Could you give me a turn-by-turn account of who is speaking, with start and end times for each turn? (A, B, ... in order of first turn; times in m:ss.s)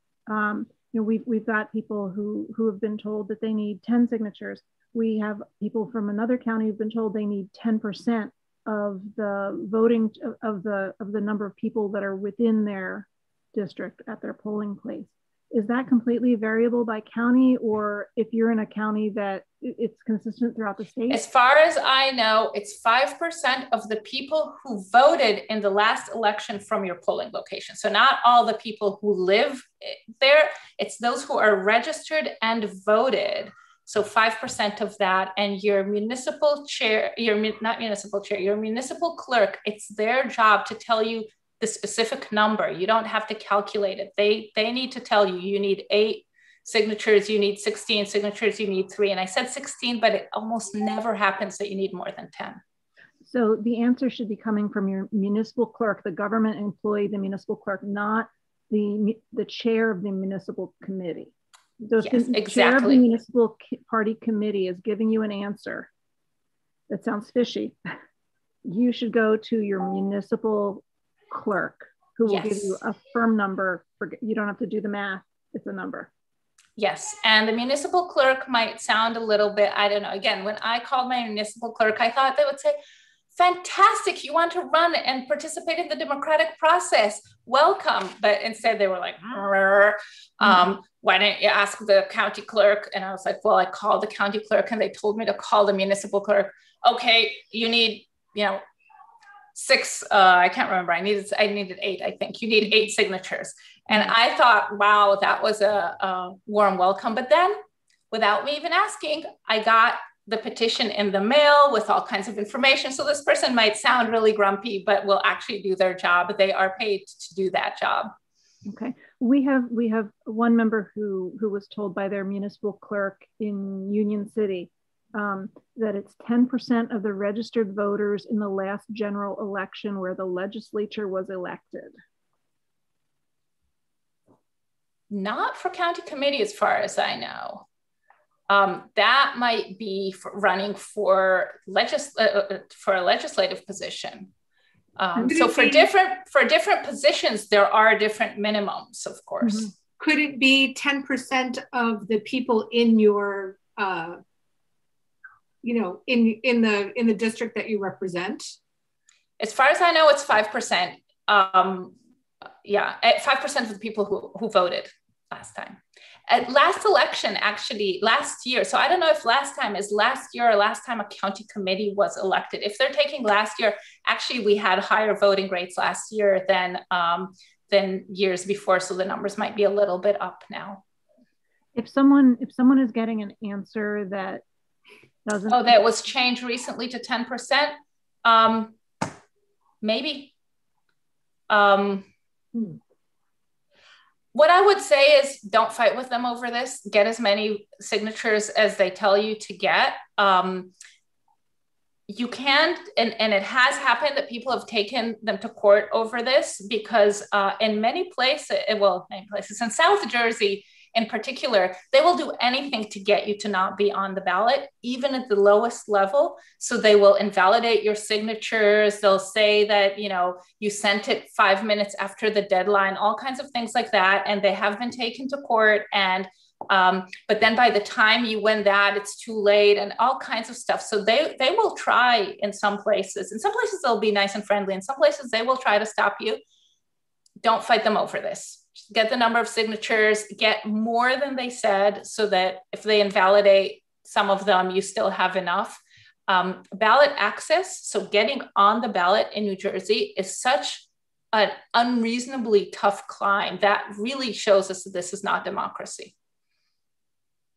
0:00.3-0:21.2 A
0:21.1-0:52.6 B
0:53.2-1:05.9 A
1:02.0-1:03.0 B
1:06.9-1:07.8 A
1:08.6-1:16.1 A
1:12.2-1:12.8 B
1:16.8-1:22.8 B
1:23.3-1:38.6 B
1:39.5-1:47.6 B
1:48.1-1:58.1 B
1:58.6-2:11.9 A
2:15.1-2:17.6 B
2:18.5-2:24.3 B
2:25.0-2:29.7 B
2:25.2-2:25.9 C
2:30.0-2:34.2 C
2:35.6-2:38.6 C
2:39.4-2:41.9 B
2:42.6-3:00.8 B
3:01.7-3:04.4 A
3:05.2-3:05.8 A
3:05.5-3:08.8 B
3:09.8-3:10.3 B
3:11.5-3:12.1 B
3:14.3-3:20.7 B
3:22.1-3:56.4 B
3:57.4-4:16.1 B